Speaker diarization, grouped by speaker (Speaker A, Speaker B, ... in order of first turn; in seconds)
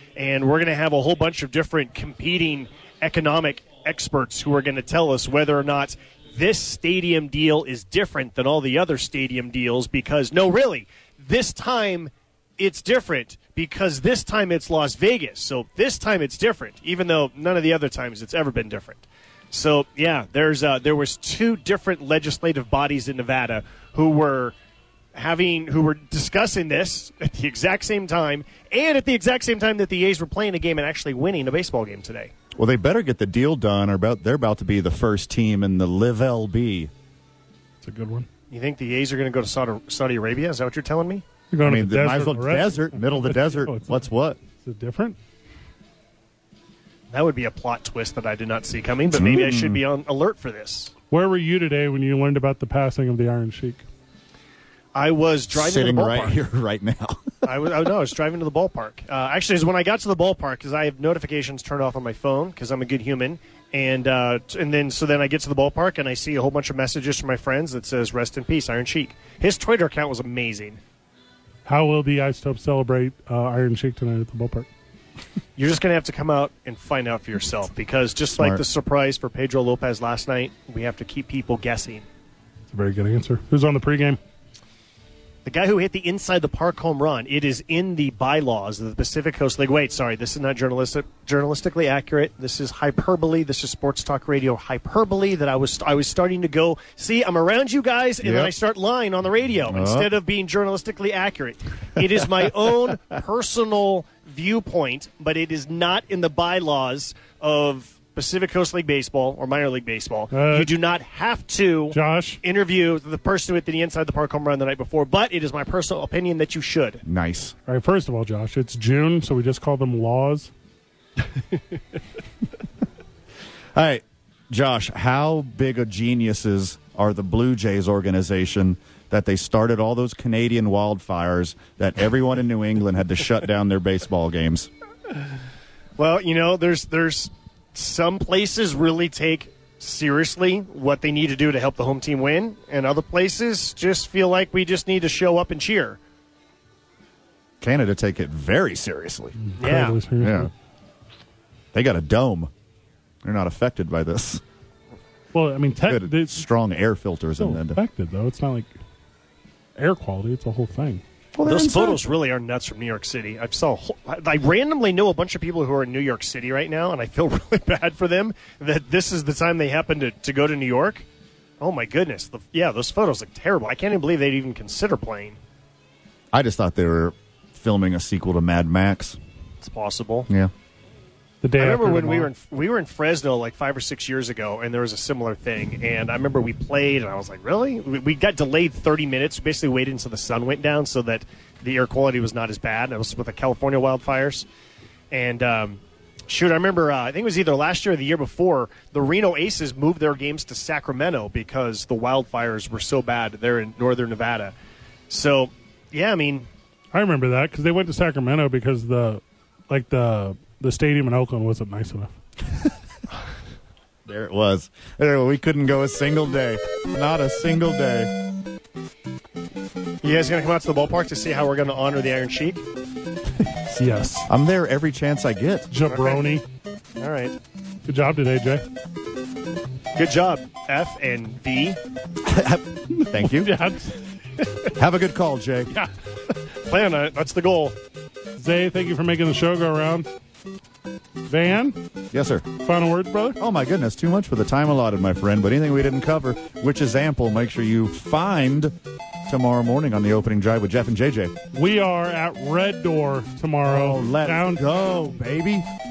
Speaker A: 0.2-24.5, 25.1-32.3, 38.5-41.2, 47.1-50.9, 54.9-56.4, 57.4-70.8, 75.5-82.1, 85.4-117.0, 136.0-146.0, 149.6-150.0, 161.4-171.1, 171.6-175.4, 179.6-180.3, 181.6-194.4, 195.1-204.5, 205.1-206.5, 220.0-222.6, 225.8-226.2, 227.0-227.4, 229.9-231.8, 236.6-237.8
Speaker B: 32.5-36.9, 41.6-44.4, 49.1-49.8, 55.5-57.2, 78.4-78.6, 98.2-98.5, 99.7-100.1, 117.0-117.5, 123.7-134.7, 147.6-149.6, 150.2-150.5, 151.7-152.5, 153.2-154.4, 155.8-157.8, 161.3-162.0, 176.3-179.2, 214.1-218.1, 224.3-225.7, 232.2-233.5, 234.8-235.7, 242.1-242.4, 243.4-248.7, 249.3-251.3, 253.7-255.7
Speaker C: 37.8-38.3, 41.5-45.2, 51.1-53.8, 71.6-74.7, 82.7-84.2, 110.3-110.7, 111.9-112.4, 117.7-120.5, 149.4-150.5, 155.3-156.4, 157.4-158.7, 159.8-161.0, 181.4-182.3, 206.9-212.1, 223.7-224.3, 225.7-226.4, 227.8-228.6, 233.1-234.0, 238.4-240.1, 241.3-241.8, 242.6-243.4, 251.5-254.6